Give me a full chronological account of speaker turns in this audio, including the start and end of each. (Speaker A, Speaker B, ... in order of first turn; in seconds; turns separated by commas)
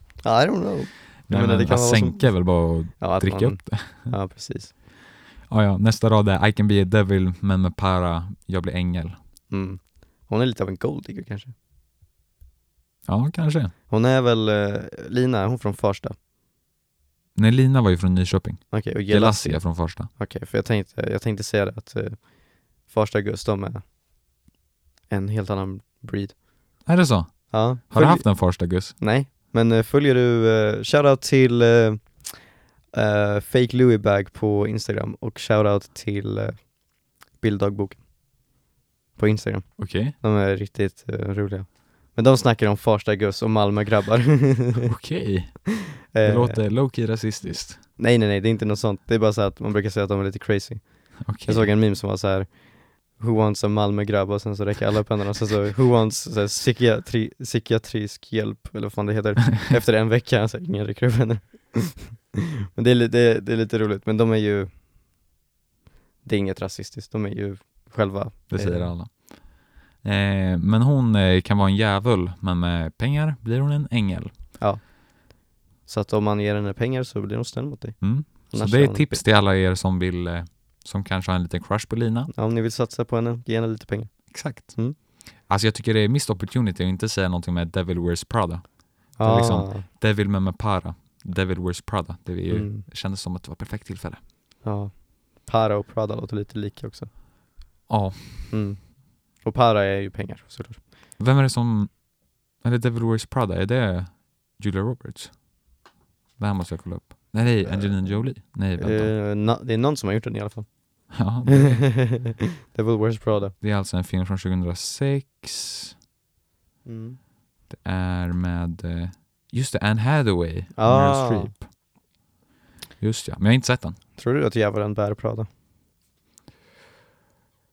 Speaker A: 0.2-4.7, Speaker B: 1.3-4.1, Speaker B: 5.5-9.2, Speaker A: 9.5-11.5, Speaker B: 13.1-13.7, Speaker A: 13.9-16.1, Speaker B: 17.3-20.1, Speaker A: 18.7-23.8, Speaker A: 25.1-26.4, Speaker B: 26.8-28.9, Speaker A: 27.5-36.8, Speaker A: 37.3-38.1, Speaker A: 39.2-44.9, Speaker B: 39.8-40.1, Speaker B: 44.8-47.8, Speaker A: 46.0-46.6, Speaker A: 48.0-64.7, Speaker B: 51.2-51.7, Speaker A: 66.2-68.9, Speaker B: 68.5-74.3, Speaker A: 74.6-74.9, Speaker A: 75.8-79.2, Speaker B: 78.0-82.3, Speaker A: 82.3-85.0, Speaker B: 84.3-84.8, Speaker B: 85.4-94.2, Speaker A: 89.2-89.9, Speaker A: 92.5-92.8, Speaker A: 94.6-97.1, Speaker B: 97.9-98.5, Speaker A: 98.5-100.8, Speaker B: 101.2-102.0, Speaker B: 102.6-105.3, Speaker B: 106.4-109.1, Speaker A: 107.6-113.5, Speaker B: 111.1-111.9, Speaker B: 113.6-115.9, Speaker A: 116.8-117.2, Speaker B: 117.7-121.7, Speaker A: 120.7-121.5, Speaker B: 123.0-124.0, Speaker A: 124.2-125.5